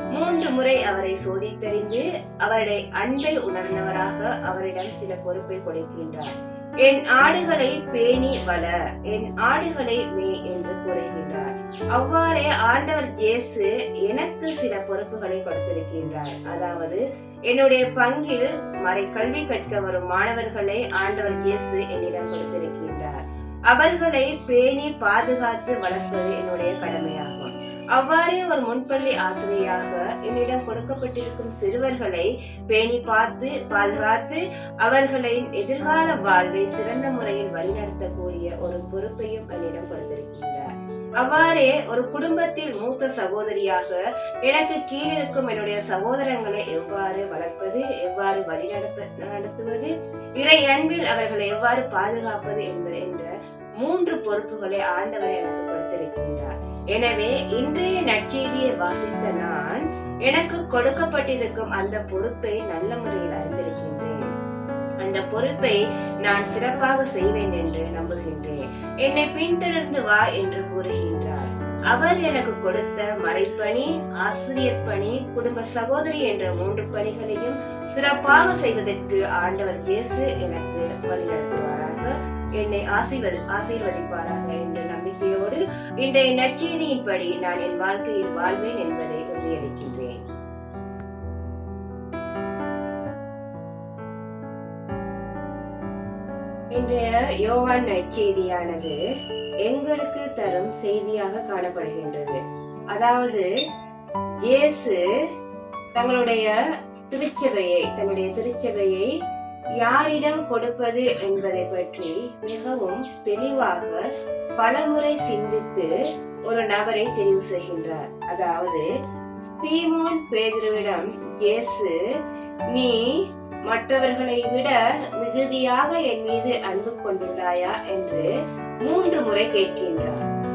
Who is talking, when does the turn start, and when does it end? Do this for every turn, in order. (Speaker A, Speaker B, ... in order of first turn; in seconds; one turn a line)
Speaker A: 0.1-6.3
Speaker A: 6.8-23.2
Speaker A: 23.7-40.7
Speaker A: 41.2-53.3
Speaker A: 53.8-64.2
Speaker A: 65.0-90.2
Speaker A: 96.7-99.0
Speaker A: 99.7-102.4
Speaker A: 102.9-103.5
Speaker A: 104.4-105.0
Speaker A: 106.0-106.5
Speaker A: 107.1-109.1
Speaker A: 109.8-114.0
Speaker A: 114.6-115.9
Speaker A: 116.5-118.8
Speaker A: 119.5-122.0
Speaker A: 123.7-128.3
Speaker A: 128.8-130.2